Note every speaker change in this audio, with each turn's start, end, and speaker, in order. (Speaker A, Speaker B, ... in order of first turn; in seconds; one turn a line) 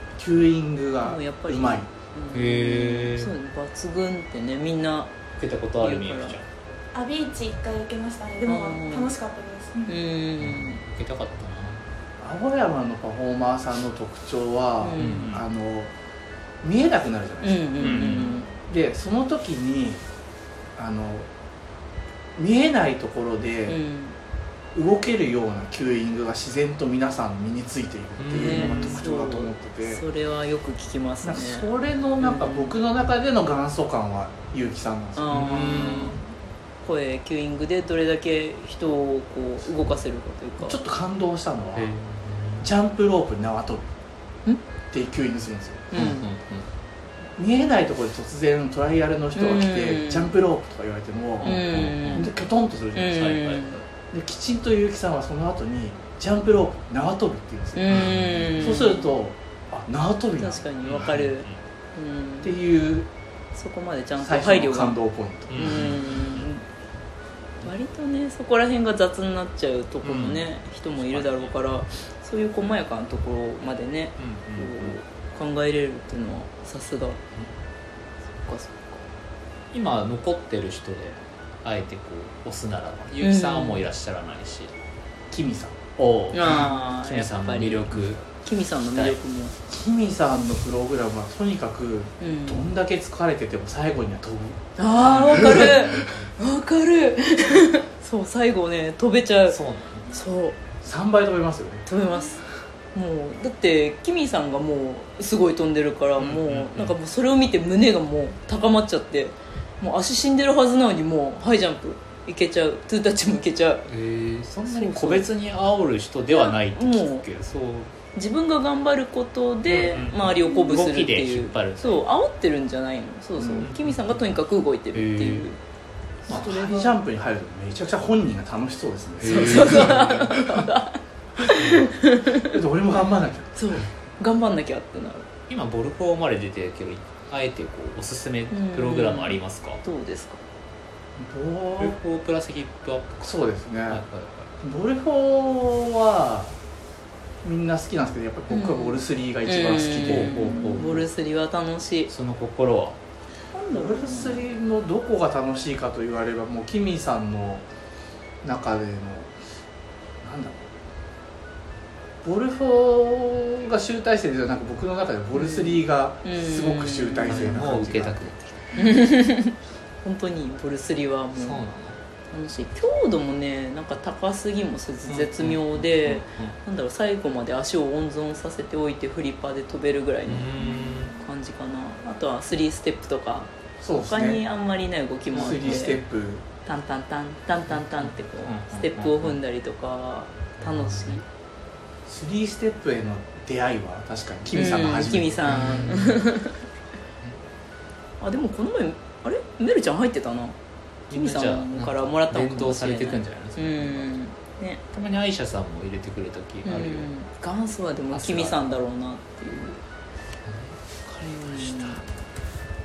Speaker A: 0.2-1.9
Speaker B: 1.0-5.2
Speaker C: 2.3-3.3
Speaker C: 5.4-6.4
Speaker B: 5.8-6.4
Speaker D: 6.9-9.9
Speaker B: 8.4-9.2
Speaker B: 9.9-10.8
Speaker C: 10.4-11.8
Speaker A: 12.2-15.9
Speaker B: 14.8-15.3
Speaker C: 15.0-15.4
Speaker A: 16.6-20.1
Speaker B: 17.4-18.5
Speaker C: 17.8-18.4
Speaker A: 20.8-21.3
Speaker A: 22.4-23.8
Speaker B: 23.7-24.1
Speaker A: 24.8-30.0
Speaker C: 28.2-29.0
Speaker B: 28.3-31.7
Speaker A: 31.2-35.7
Speaker B: 32.2-32.8
Speaker B: 35.2-40.8
Speaker C: 35.3-36.2
Speaker A: 40.6-41.9
Speaker C: 41.8-42.7
Speaker A: 42.6-43.9
Speaker A: 44.9-45.9
Speaker B: 45.9-46.3
Speaker C: 46.0-46.7
Speaker A: 47.4-53.3
Speaker B: 49.4-50.3
Speaker C: 51.4-52.3
Speaker B: 51.4-52.3
Speaker B: 52.9-53.8
Speaker C: 53.1-53.8
Speaker A: 54.1-60.6
Speaker B: 57.8-59.1
Speaker C: 57.9-58.6
Speaker B: 60.4-62.6
Speaker C: 60.8-61.5
Speaker A: 62.4-63.1
Speaker B: 63.5-65.0
Speaker A: 64.2-65.8
Speaker C: 65.5-66.5
Speaker B: 65.5-66.6
Speaker B: 67.6-77.2
Speaker C: 70.0-71.5
Speaker C: 74.2-75.0
Speaker B: 78.4-79.0
Speaker C: 79.7-84.7
Speaker B: 83.2-83.9
Speaker A: 85.3-85.9
Speaker C: 86.0-88.2
Speaker B: 86.3-89.6
Speaker A: 89.7-94.6
Speaker B: 92.2-92.7
Speaker B: 94.8-99.6
Speaker C: 95.0-96.3
Speaker A: 95.2-96.1
Speaker C: 99.5-100.1
Speaker B: 100.1-100.6
Speaker A: 100.8-101.9
Speaker B: 101.9-113.9
Speaker C: 106.2-106.9
Speaker C: 113.9-117.9
Speaker B: 114.7-115.3
Speaker B: 116.3-117.3
Speaker B: 118.2-125.6
Speaker C: 119.7-122.0
Speaker A: 123.4-123.7
Speaker C: 123.6-124.3
Speaker C: 124.9-125.5
Speaker B: 126.3-127.0
Speaker A: 126.3-130.7
Speaker C: 129.2-130.3
Speaker B: 129.2-132.6
Speaker C: 131.5-131.9
Speaker A: 132.5-133.6
Speaker B: 133.6-135.3
Speaker C: 135.5-139.8
Speaker B: 138.5-140.4
Speaker A: 141.2-142.0
Speaker C: 141.8-143.3
Speaker A: 143.2-144.0
Speaker C: 143.9-144.5
Speaker A: 144.6-146.6
Speaker A: 147.4-151.0
Speaker B: 148.5-152.1
Speaker C: 150.0-151.0
Speaker C: 152.1-153.0
Speaker B: 153.5-154.4
Speaker A: 153.7-157.7
Speaker A: 158.4-159.3
Speaker A: 160.2-160.7
Speaker A: 162.2-168.3
Speaker B: 165.3-167.6
Speaker C: 167.3-168.8
Speaker B: 168.8-171.6
Speaker C: 171.4-172.0
Speaker B: 172.3-186.0
Speaker C: 175.0-176.6
Speaker C: 180.3-181.1
Speaker A: 183.8-184.4
Speaker A: 185.3-186.5
Speaker B: 186.7-191.2
Speaker C: 187.7-189.4
Speaker C: 190.6-191.2
Speaker A: 192.1-195.6
Speaker B: 194.5-196.6
Speaker C: 195.5-196.3
Speaker B: 198.2-200.6
Speaker C: 201.1-204.1
Speaker B: 201.1-204.8
Speaker C: 204.9-207.1
Speaker B: 206.7-209.8
Speaker C: 208.1-208.7
Speaker C: 210.4-212.0
Speaker B: 211.1-212.0